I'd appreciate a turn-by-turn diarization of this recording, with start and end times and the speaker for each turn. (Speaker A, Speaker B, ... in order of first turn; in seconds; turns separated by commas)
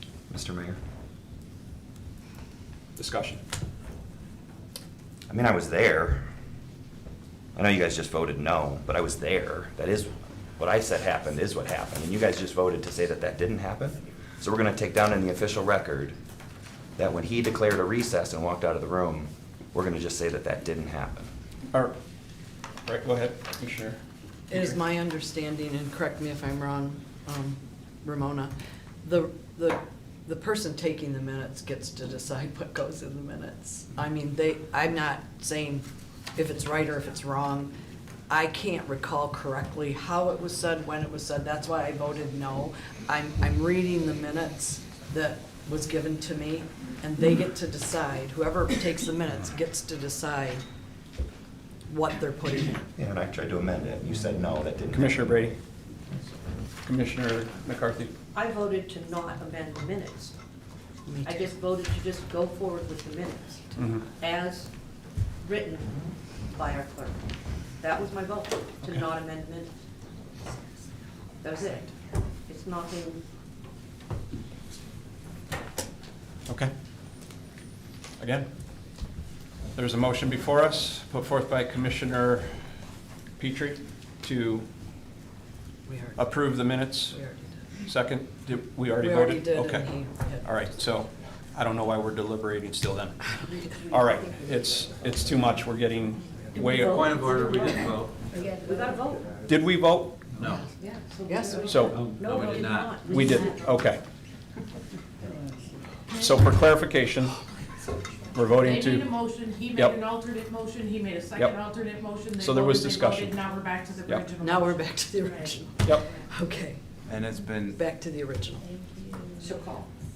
Speaker A: 0.3-0.8, Speaker B: 3.0-3.4, Speaker A: 5.3-6.3, Speaker A: 7.6-16.1, Speaker A: 17.0-21.3, Speaker B: 22.9-24.0, Speaker C: 24.5-28.5, Speaker C: 29.0-37.7, Speaker C: 38.3-50.6, Speaker C: 51.9-52.9, Speaker A: 53.0-55.6, Speaker B: 54.9-55.5, Speaker B: 56.8-58.1, Speaker D: 58.3-60.3, Speaker C: 61.1-61.5, Speaker D: 61.2-64.7, Speaker B: 63.8-64.0, Speaker D: 65.4-69.7, Speaker D: 71.4-73.2, Speaker B: 78.2-78.5, Speaker B: 79.8-82.6, Speaker B: 83.4-84.7, Speaker C: 85.8-87.7, Speaker B: 86.2-87.2, Speaker B: 87.8-97.1, Speaker C: 89.0-90.7, Speaker D: 96.5-99.3, Speaker E: 96.8-98.4, Speaker B: 99.5-100.2, Speaker E: 100.3-100.7, Speaker D: 100.7-103.7, Speaker C: 101.3-101.9, Speaker B: 101.7-102.1, Speaker E: 101.9-103.0, Speaker B: 103.1-104.0, Speaker B: 106.1-107.4, Speaker B: 108.3-109.2, Speaker F: 108.8-114.4, Speaker B: 109.7-110.0, Speaker B: 112.3-113.4, Speaker B: 114.0-114.4, Speaker C: 114.4-116.8, Speaker F: 115.2-115.6, Speaker B: 115.8-116.1, Speaker E: 117.1-117.8, Speaker C: 117.7-118.7, Speaker F: 118.7-119.6, Speaker D: 119.4-119.9